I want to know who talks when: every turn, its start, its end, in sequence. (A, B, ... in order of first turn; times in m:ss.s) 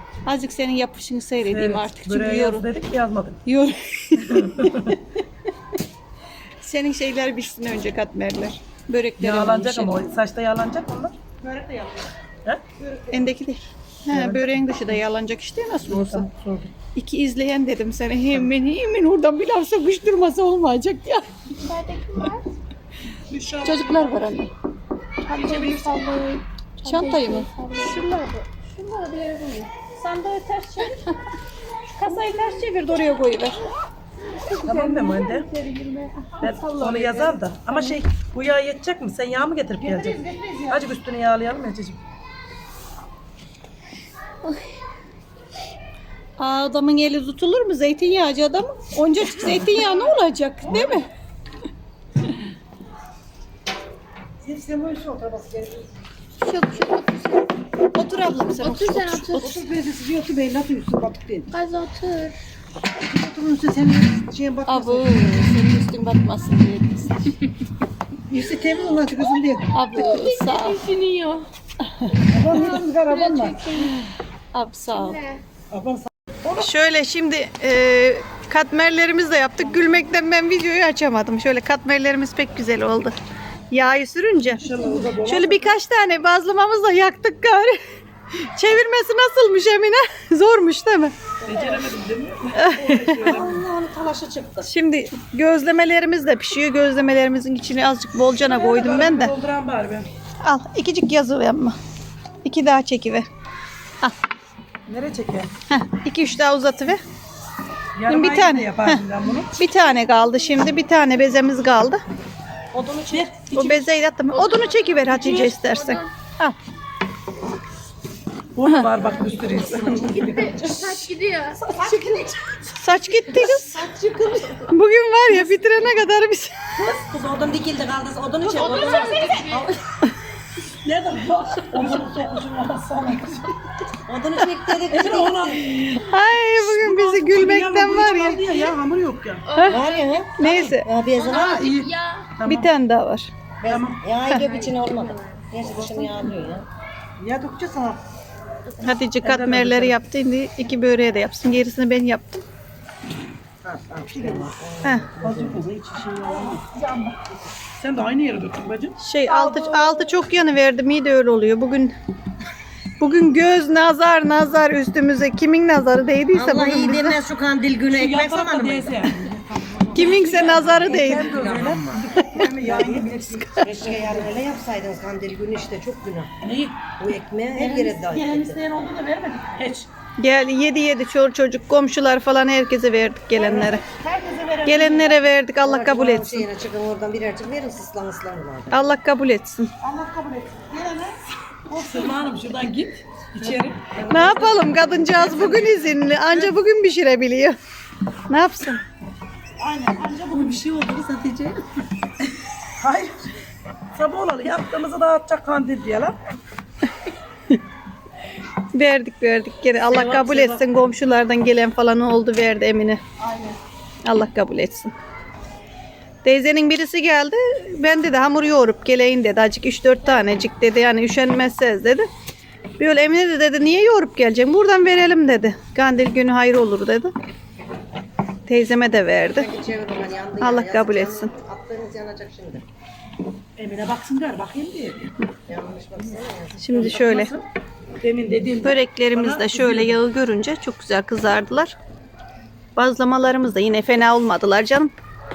0:00.2-0:02.7 A
0:01.5-0:03.4 B
0:03.4-0:05.0 A
0:04.2-0:04.9 B
0:06.6-0:10.0 A
0:09.2-0:11.2 B
0:11.4-0:12.1 C
0:12.8-0:13.3 C
0:13.1-0:16.3 A
0:14.1-0:15.0 B
0:15.8-0:16.7 B
0:16.9-0:22.4 A
0:23.6-0:24.5 A
0:23.7-0:24.0 B
0:25.3-0:26.3 C
0:25.4-0:25.8 A
0:25.5-0:28.0 D
0:26.8-0:31.0 A
0:31.9-0:33.6 A
0:34.6-0:35.5 B
0:34.7-0:36.5 A
0:36.4-0:42.0 B
0:36.4-0:37.4 C
0:39.8-0:40.9 C
0:46.4-0:51.1 A
0:49.4-0:49.7 B
0:50.7-0:51.0 B
0:54.4-0:55.9 E
0:56.4-0:59.6 A
0:58.5-0:59.6 D
0:59.4-1:01.5 E
1:01.5-1:02.3 D
1:02.9-1:05.6 E
1:04.7-1:07.3 A
1:08.3-1:09.7 E
1:09.7-1:10.8 A
1:09.9-1:11.5 D
1:10.0-1:10.5 C
1:12.3-1:13.6 E
1:12.6-1:13.9 D
1:13.8-1:15.2 A
1:15.0-1:15.4 D
1:15.7-1:16.1 E
1:16.6-1:23.1 A
1:23.7-1:27.8 A
1:24.6-1:25.8 B
1:28.4-1:31.1 A
1:31.4-1:31.9 F
1:31.5-1:33.6 B
1:32.5-1:33.4 A
1:33.2-1:34.7 F
1:34.6-1:39.3 A
1:38.4-1:40.1 B
1:40.4-1:41.8 A
1:42.4-1:43.2 A
1:44.9-1:45.5 B
1:45.7-1:47.0 A
1:47.9-1:49.5 B
1:48.1-1:52.0 A
1:52.7-1:53.3 F
1:53.1-1:53.8 B
1:53.5-1:56.6 A
1:54.3-1:56.1 D
1:55.2-1:55.5 B
1:58.5-2:00.2 B
1:59.2-2:00.7 F
2:00.1-2:01.7 D
2:01.7-2:02.7 C
2:02.8-2:03.8 A
2:04.7-2:06.5 A
2:06.8-2:09.8 F
2:08.4-2:09.6 C
2:08.6-2:09.6 D
2:10.8-2:13.5 B
2:14.1-2:15.6 F
2:14.9-2:19.5 B
2:15.9-2:18.7 A
2:19.5-2:20.2 D
2:19.5-2:19.8 A
2:19.7-2:21.7 F
2:20.4-2:20.9 A
2:20.4-2:22.7 B
2:21.1-2:22.3 D
2:22.4-2:23.3 A
2:23.6-2:26.6 F
2:23.7-2:24.0 B
2:24.3-2:25.5 D
2:27.2-2:28.0 E
2:28.8-2:32.4 A
2:29.2-2:30.0 B
2:33.6-2:35.6 F
2:34.1-2:34.5 E
2:35.2-2:36.5 B
2:35.2-2:36.6 E
2:36.2-2:37.2 C
2:37.8-2:39.0 B
2:39.0-2:42.0 A
2:39.3-2:40.1 C
2:43.0-2:47.2 A
2:46.3-2:49.3 F
2:47.9-2:49.3 B
2:49.2-2:50.6 E
2:49.9-2:53.4 B
2:49.9-2:51.7 A
2:50.0-2:52.0 F
2:52.3-2:54.3 E
2:52.4-2:53.7 A
2:52.7-2:53.0 F
2:53.6-2:56.3 F
2:56.4-2:56.8 B
2:57.0-2:58.6 F
2:57.5-2:59.9 B
3:00.2-3:03.8 A
3:03.3-3:05.2 C
3:03.4-3:03.6 F
3:04.6-3:06.5 A
3:05.6-3:08.9 F
3:08.7-3:09.7 A
3:09.8-3:11.2 C
3:11.7-3:12.3 C
3:11.8-3:13.9 B
3:13.4-3:15.7 F
3:14.1-3:17.6 A
3:15.0-3:16.5 B
3:18.3-3:18.8 A
3:19.6-3:21.0 C
3:20.3-3:21.6 B
3:22.8-3:23.3 B
3:23.9-3:26.2 B
3:28.7-3:33.0 A
3:29.9-3:30.7 B
3:33.2-3:33.6 C
3:34.0-3:34.9 A
3:36.2-3:42.1 A
3:42.8-3:47.1 A
3:48.5-3:49.5 A
3:49.3-3:52.6 F
3:50.4-3:51.3 A
3:53.6-3:55.1 B
3:55.5-3:57.2 F
3:56.6-3:57.3 A
3:56.7-3:57.4 B
3:58.0-4:00.0 B
3:58.6-4:01.8 A
4:02.8-4:04.9 A